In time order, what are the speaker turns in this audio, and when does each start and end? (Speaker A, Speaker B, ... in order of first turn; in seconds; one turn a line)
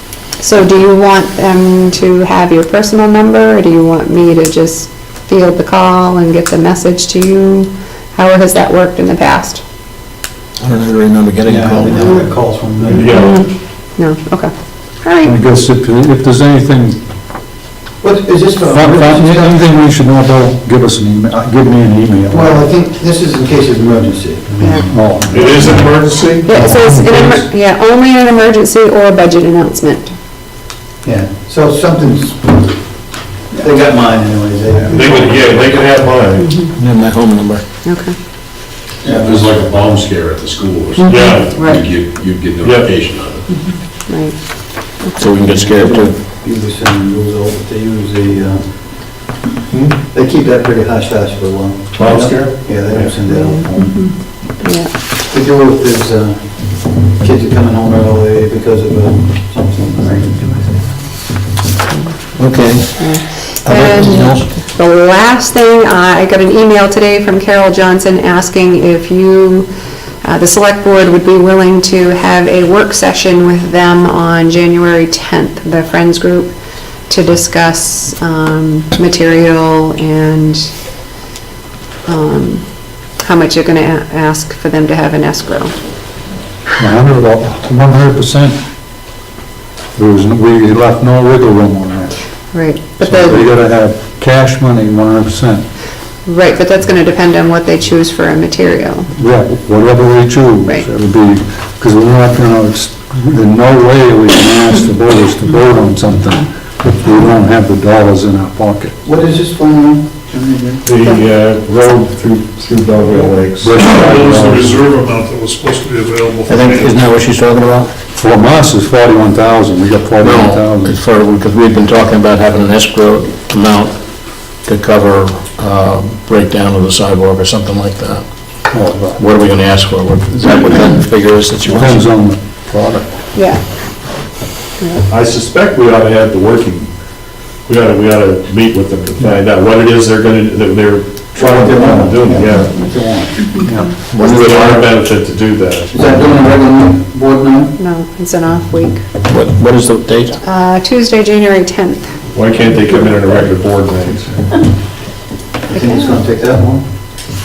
Speaker A: 0.4-9.6
Speaker B: 10.6-12.2
Speaker C: 11.4-13.4
Speaker D: 12.9-13.3
Speaker A: 13.0-15.3
Speaker E: 15.2-17.0
Speaker C: 18.0-19.6
Speaker E: 18.6-22.6
Speaker C: 22.3-25.3
Speaker A: 24.6-24.9
Speaker E: 24.9-27.5
Speaker D: 25.3-26.5
Speaker A: 26.4-30.1
Speaker C: 31.0-32.8
Speaker C: 33.5-35.4
Speaker D: 35.0-36.5
Speaker B: 36.5-37.6
Speaker A: 37.8-38.1
Speaker C: 39.0-39.5
Speaker F: 39.0-43.5
Speaker A: 41.0-41.9
Speaker D: 41.0-41.5
Speaker D: 42.6-42.9
Speaker A: 44.1-45.3
Speaker B: 45.2-46.2
Speaker C: 45.4-49.4
Speaker C: 50.0-54.1
Speaker D: 51.9-53.1
Speaker A: 53.3-53.9
Speaker A: 54.4-54.9
Speaker C: 55.3-61.0
Speaker A: 61.9-62.1
Speaker B: 62.4-64.5
Speaker A: 63.0-69.7
Speaker A: 70.2-76.5
Speaker A: 77.1-80.7
Speaker A: 82.1-82.6
Speaker A: 83.2-85.7
Speaker E: 86.8-88.6
Speaker E: 90.0-92.2
Speaker A: 92.5-93.5
Speaker E: 93.0-95.6
Speaker A: 96.2-99.1
Speaker E: 99.2-109.0
Speaker C: 109.0-110.9
Speaker D: 110.8-113.7
Speaker E: 113.1-114.9
Speaker G: 113.7-116.9
Speaker B: 116.5-117.9
Speaker E: 118.1-121.0
Speaker B: 120.2-128.2
Speaker E: 128.7-129.2
Speaker B: 129.2-132.1
Speaker E: 131.6-133.2
Speaker A: 133.3-133.6
Speaker A: 134.8-135.0
Speaker D: 135.1-136.9
Speaker D: 137.7-142.7
Speaker C: 141.4-144.7
Speaker E: 141.4-142.1
Speaker B: 144.1-144.9
Speaker D: 144.4-145.9
Speaker C: 145.9-147.7
Speaker A: 147.8-149.0
Speaker B: 149.2-150.4
Speaker A: 150.4-152.2
Speaker D: 152.3-154.4
Speaker C: 155.7-156.8
Speaker A: 155.7-156.2